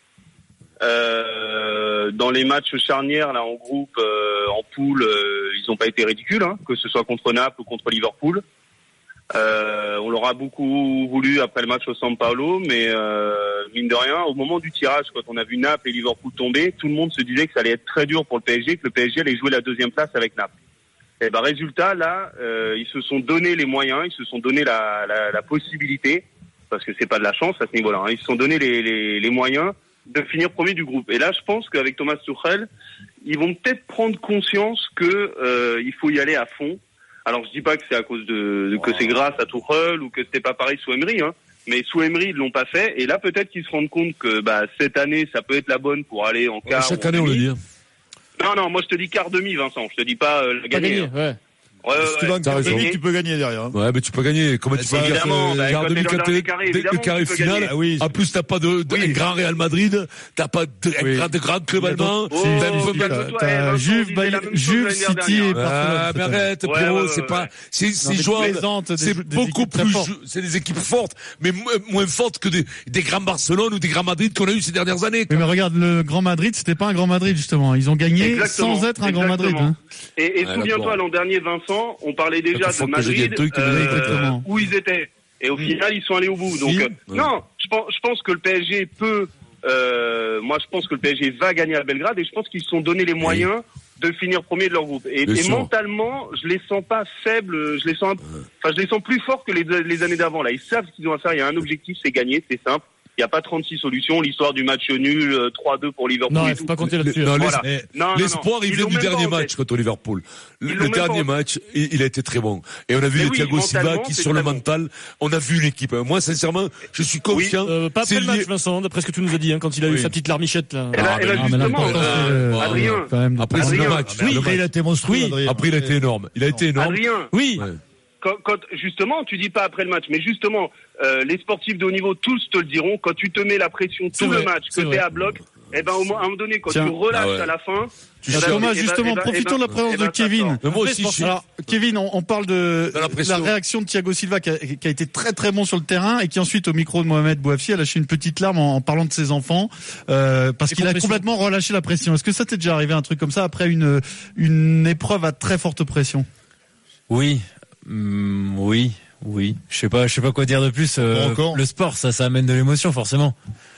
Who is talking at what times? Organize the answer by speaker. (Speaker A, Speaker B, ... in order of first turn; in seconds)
Speaker A: 0.8-8.4, 9.3-20.5, 21.2-32.7, 33.2-47.5, 48.4-51.1, 51.8-53.0, 55.0-57.7, 58.9-59.2, 62.3-65.7, 66.6-67.5, 78.2-106.8, 107.3-109.5, 110.7-111.3, 113.1-114.6, 117.3-117.5, 120.9-124.1, 126.8-127.3, 128.2-140.6
Speaker B: 46.6-47.6, 52.4-52.9, 53.7-63.3, 65.5-75.5, 80.4-81.0, 82.5-84.2, 93.2-93.5, 95.2-95.7, 106.9-118.5, 121.0-124.7, 125.4-127.8, 137.1-137.5, 138.2-138.7, 140.6-141.3, 142.9-143.5
Speaker C: 50.7-51.4, 106.3-107.5, 117.6-121.0, 124.1-124.5, 125.0-125.4, 127.3-127.7, 134.1-135.0, 140.7-141.3, 150.7-151.2
Speaker D: 52.0-53.7, 54.7-55.8, 57.6-58.1, 61.8-62.1, 63.0-63.2, 124.0-126.0, 161.0-161.6
Speaker E: 62.0-66.5, 68.0-70.1, 75.3-79.8, 83.7-84.5, 121.3-124.0, 136.7-137.0, 138.3-156.2
Speaker F: 157.1-163.3